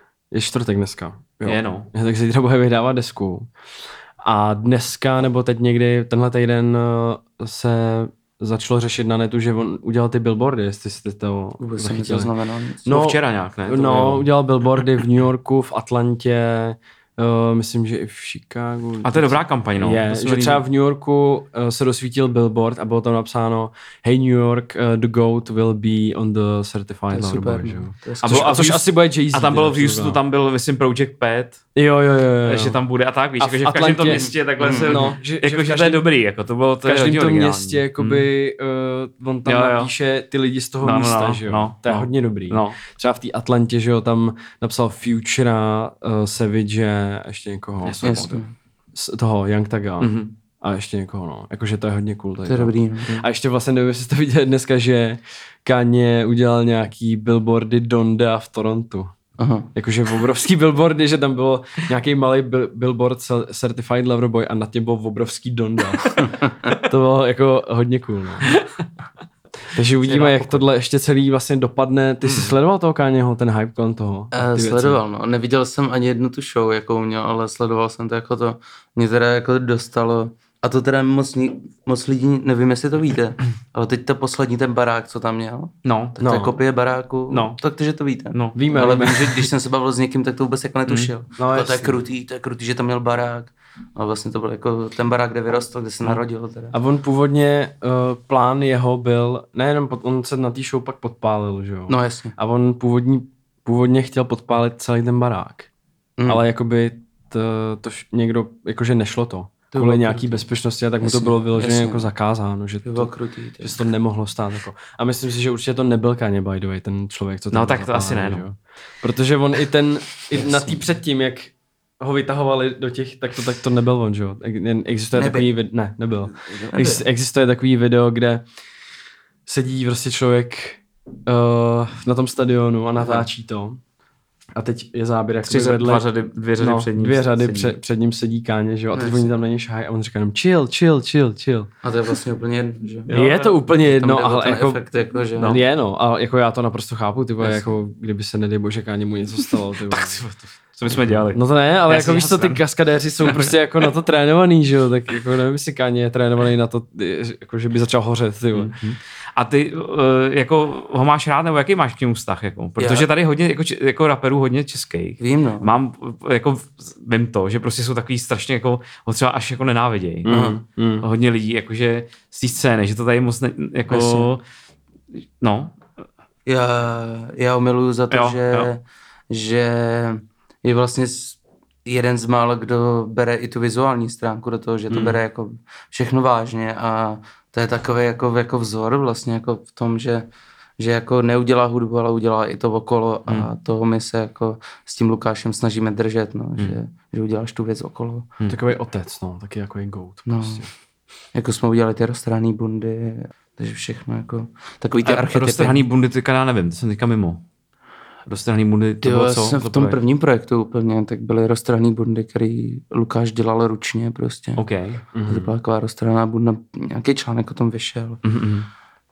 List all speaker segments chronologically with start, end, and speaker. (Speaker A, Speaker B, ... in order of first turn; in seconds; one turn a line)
Speaker A: 0.3-3.5
Speaker B: 1.4-1.9
Speaker A: 4.2-12.3
Speaker C: 11.6-12.9
Speaker A: 12.8-30.2
Speaker B: 12.9-14.3
Speaker B: 19.0-20.6
Speaker C: 27.1-28.7
Speaker B: 28.2-31.6
Speaker A: 31.8-32.8
Speaker B: 32.5-38.3
Speaker A: 33.4-36.0
Speaker C: 34.1-35.1
Speaker A: 36.8-48.4
Speaker B: 39.5-39.9
Speaker B: 40.8-42.8
Speaker B: 47.8-48.4
Speaker C: 48.0-48.5
Speaker A: 48.9-59.1
Speaker B: 50.0-50.3
Speaker C: 52.5-53.2
Speaker C: 59.4-59.7
Speaker A: 59.8-66.2
Speaker A: 66.8-68.5
Speaker A: 69.7-75.0
Speaker C: 70.1-70.6
Speaker C: 74.3-96.8
Speaker B: 85.8-86.2
Speaker A: 86.2-86.6
Speaker B: 87.3-87.6
Speaker A: 88.5-89.5
Speaker A: 91.4-92.0
Speaker A: 96.7-105.7
Speaker C: 101.9-102.4
Speaker A: 106.3-128.4
Speaker C: 109.7-110.5
Speaker C: 111.0-112.1
Speaker C: 112.8-113.8
Speaker B: 117.5-118.4
Speaker C: 120.3-120.8
Speaker C: 125.1-125.5
Speaker C: 126.5-127.0
Speaker A: 129.5-133.8
Speaker C: 133.0-133.3
Speaker A: 134.6-136.1
Speaker B: 135.4-137.8
Speaker A: 136.6-141.7
Speaker C: 138.9-139.3
Speaker C: 141.8-143.1
Speaker B: 143.1-143.6
Speaker A: 143.1-144.8
Speaker C: 143.8-145.6
Speaker A: 145.4-150.2
Speaker C: 147.4-147.7
Speaker B: 149.9-152.6
Speaker A: 151.3-158.7
Speaker B: 158.5-170.3
Speaker C: 162.8-163.1
Speaker C: 165.2-165.7
Speaker A: 170.2-171.1
Speaker C: 170.3-170.6
Speaker B: 171.0-174.4
Speaker C: 173.9-174.3
Speaker B: 175.4-175.8
Speaker C: 176.5-190.3
Speaker B: 178.1-178.7
Speaker B: 184.9-185.2
Speaker C: 190.8-198.3
Speaker A: 198.5-200.7
Speaker C: 200.3-200.7
Speaker C: 201.3-205.8
Speaker B: 205.1-207.4
Speaker B: 208.3-210.0
Speaker C: 209.0-214.6
Speaker B: 214.6-215.0
Speaker A: 215.1-215.5
Speaker C: 215.3-218.2
Speaker B: 218.2-218.7